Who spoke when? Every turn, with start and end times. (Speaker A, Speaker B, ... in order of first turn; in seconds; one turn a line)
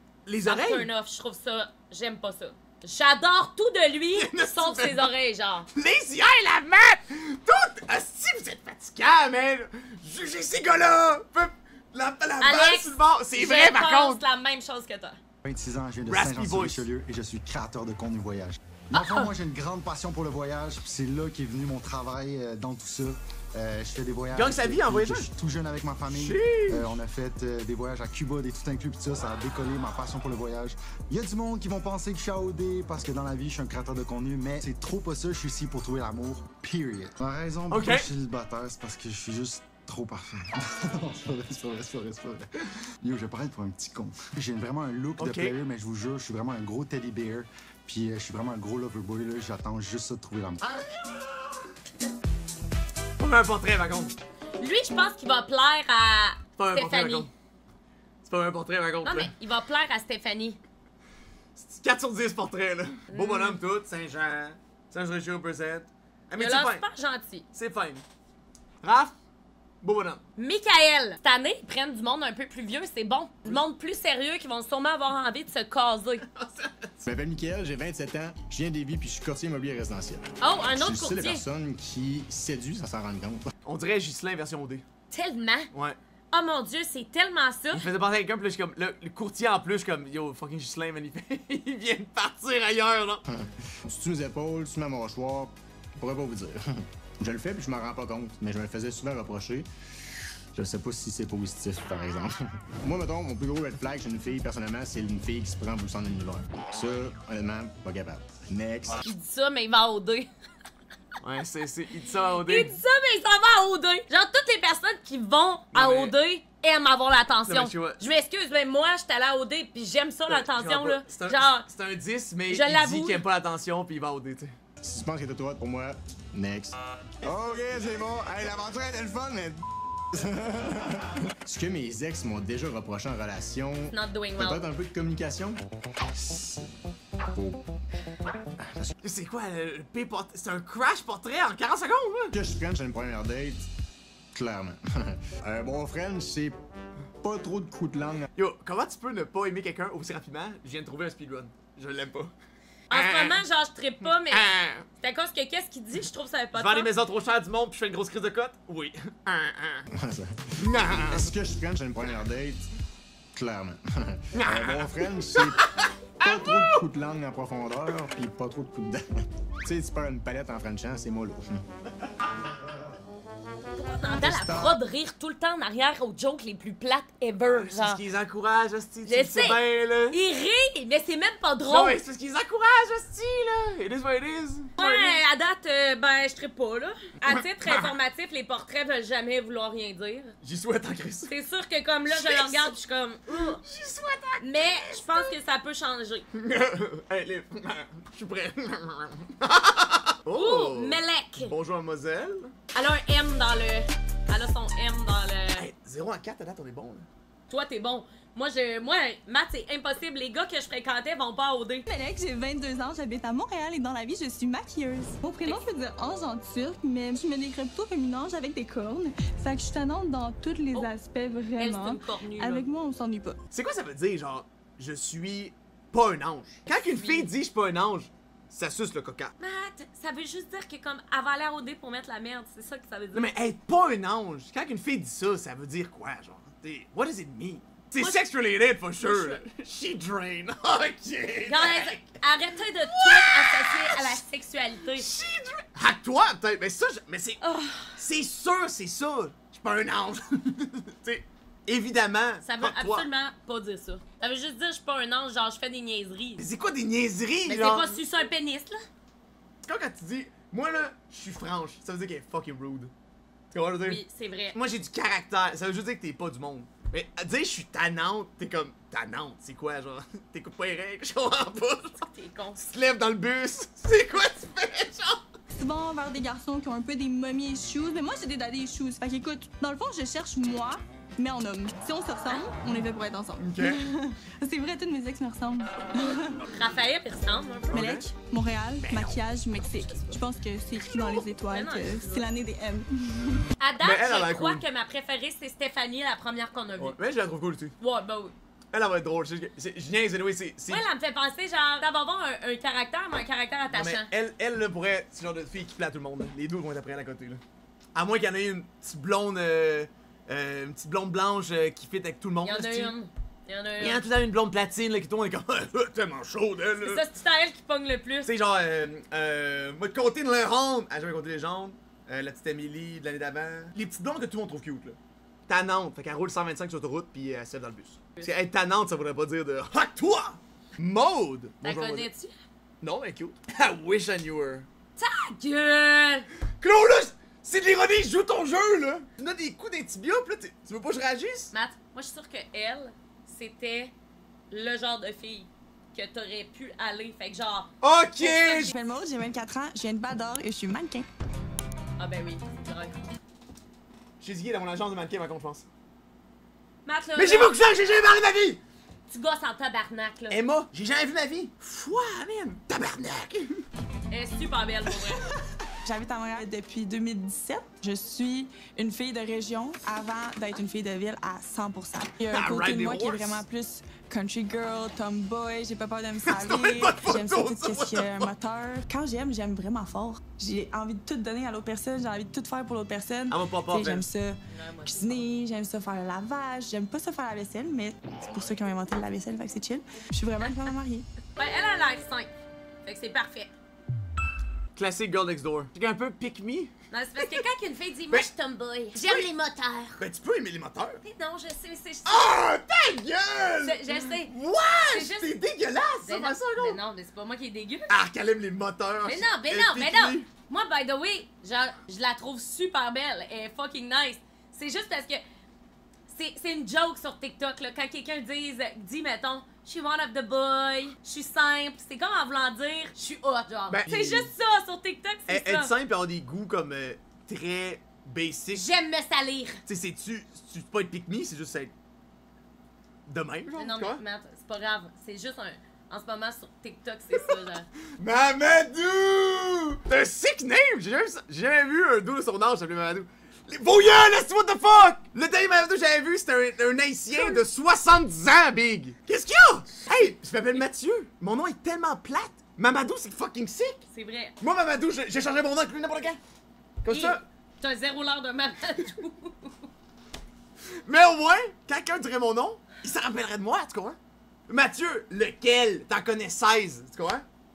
Speaker A: 0.3-0.9
Speaker B: 0.4-5.7
Speaker A: 4.1-5.1
Speaker A: 5.7-14.2
Speaker B: 12.4-15.2
Speaker C: 15.4-42.5
Speaker A: 16.1-16.9
Speaker B: 19.0-19.3
Speaker A: 24.3-25.3
Speaker A: 26.1-26.9
Speaker A: 37.7-38.1
Speaker C: 43.0-50.9
Speaker A: 45.2-45.6
Speaker A: 53.2-54.1
Speaker B: 54.6-57.3
Speaker A: 56.6-57.3
Speaker A: 58.2-59.3
Speaker B: 59.0-60.6
Speaker A: 61.6-66.8
Speaker B: 63.1-63.6
Speaker B: 66.4-67.5
Speaker A: 67.5-68.0
Speaker A: 68.8-69.1
Speaker A: 69.8-70.2
Speaker B: 70.4-76.3
Speaker A: 76.3-77.1
Speaker D: 77.1-83.5
Speaker B: 80.4-81.4
Speaker A: 83.7-84.8
Speaker B: 85.1-85.7
Speaker B: 86.3-87.8
Speaker A: 87.7-93.2
Speaker D: 93.3-99.7
Speaker D: 100.5-109.0
Speaker B: 109.0-110.3
Speaker A: 111.2-112.8
Speaker B: 112.5-121.7
Speaker A: 115.7-116.1
Speaker A: 117.5-118.1
Speaker A: 120.3-124.5
Speaker B: 122.5-123.2
Speaker D: 124.8-135.6
Speaker B: 133.9-134.6
Speaker D: 136.1-136.7
Speaker D: 137.3-137.6
Speaker D: 138.6-138.9
Speaker A: 139.0-142.4
Speaker D: 142.3-143.7
Speaker D: 144.3-146.6
Speaker D: 147.2-148.3
Speaker A: 148.4-152.3
Speaker A: 152.9-153.4
Speaker B: 152.9-154.4
Speaker A: 154.0-154.8
Speaker B: 155.0-156.9
Speaker A: 156.5-159.9
Speaker D: 159.9-162.7
Speaker A: 160.6-161.3
Speaker D: 163.3-165.6
Speaker A: 164.3-166.8
Speaker D: 166.2-171.6
Speaker B: 173.8-178.0
Speaker D: 174.1-174.8
Speaker A: 177.4-180.2
Speaker B: 179.1-182.0
Speaker A: 181.7-185.2
Speaker B: 184.8-190.3
Speaker A: 187.3-187.9
Speaker A: 190.4-191.3
Speaker B: 191.3-193.6
Speaker A: 192.1-192.8
Speaker A: 193.3-195.3
Speaker B: 194.4-196.3
Speaker A: 196.3-202.5
Speaker B: 200.3-201.5
Speaker B: 202.8-205.7
Speaker A: 205.6-207.1
Speaker B: 207.5-211.9
Speaker E: 211.9-223.4
Speaker B: 221.6-222.7
Speaker A: 223.5-229.3
Speaker B: 226.7-227.3
Speaker B: 229.4-233.3
Speaker A: 233.1-242.2
Speaker B: 239.0-239.4
Speaker B: 241.5-245.1
Speaker A: 242.9-244.2
Speaker A: 244.9-247.4
Speaker B: 247.4-247.8
Speaker A: 248.0-253.1
Speaker B: 252.4-256.4
Speaker A: 256.4-258.0
Speaker B: 257.5-258.8
Speaker A: 259.6-262.9
Speaker A: 263.5-264.0
Speaker B: 263.8-264.6
Speaker A: 264.5-272.0
Speaker B: 272.0-272.6
Speaker A: 272.6-275.2
Speaker E: 275.5-286.4
Speaker A: 283.4-283.8
Speaker B: 286.4-287.9
Speaker A: 287.7-288.1
Speaker E: 287.7-293.4
Speaker A: 288.8-289.2
Speaker B: 289.8-290.1
Speaker B: 291.5-292.3
Speaker B: 293.6-297.0
Speaker A: 293.8-294.6
Speaker A: 296.8-297.7
Speaker B: 297.8-298.3
Speaker A: 298.7-300.9
Speaker B: 300.7-304.1
Speaker A: 303.7-307.4
Speaker A: 307.9-312.9
Speaker B: 312.4-314.0
Speaker A: 313.8-317.0
Speaker B: 316.8-318.3
Speaker A: 318.3-325.0
Speaker A: 325.5-332.1
Speaker B: 331.6-332.4
Speaker A: 332.8-334.7
Speaker B: 335.0-336.3
Speaker A: 336.6-341.5
Speaker B: 341.5-343.9
Speaker B: 344.5-348.7
Speaker A: 347.8-348.7
Speaker E: 348.7-351.1
Speaker B: 352.0-352.9
Speaker A: 354.2-355.6
Speaker B: 356.9-357.6
Speaker A: 357.2-358.6
Speaker B: 359.1-360.4
Speaker A: 360.3-363.6
Speaker B: 364.1-365.2
Speaker E: 365.9-391.1
Speaker A: 372.3-373.4
Speaker A: 376.3-378.3
Speaker A: 383.3-384.1
Speaker B: 384.5-385.3
Speaker B: 391.4-392.3
Speaker B: 392.8-393.5
Speaker A: 394.8-396.7
Speaker B: 396.9-400.0
Speaker A: 398.9-399.3
Speaker A: 400.0-401.0
Speaker B: 401.0-402.3
Speaker A: 402.1-406.8
Speaker B: 403.6-404.3
Speaker B: 404.9-405.4
Speaker B: 406.0-407.9
Speaker A: 407.9-410.3
Speaker B: 409.0-415.2
Speaker B: 416.1-425.7
Speaker A: 423.7-424.3
Speaker A: 425.3-428.7
Speaker B: 428.5-429.6
Speaker A: 429.7-431.7
Speaker A: 433.1-434.0
Speaker B: 433.6-437.7
Speaker A: 438.0-453.8
Speaker B: 447.1-447.4
Speaker B: 453.9-454.4
Speaker A: 454.4-456.2
Speaker A: 456.8-457.2
Speaker B: 456.9-459.6
Speaker A: 460.9-464.0
Speaker A: 464.5-467.2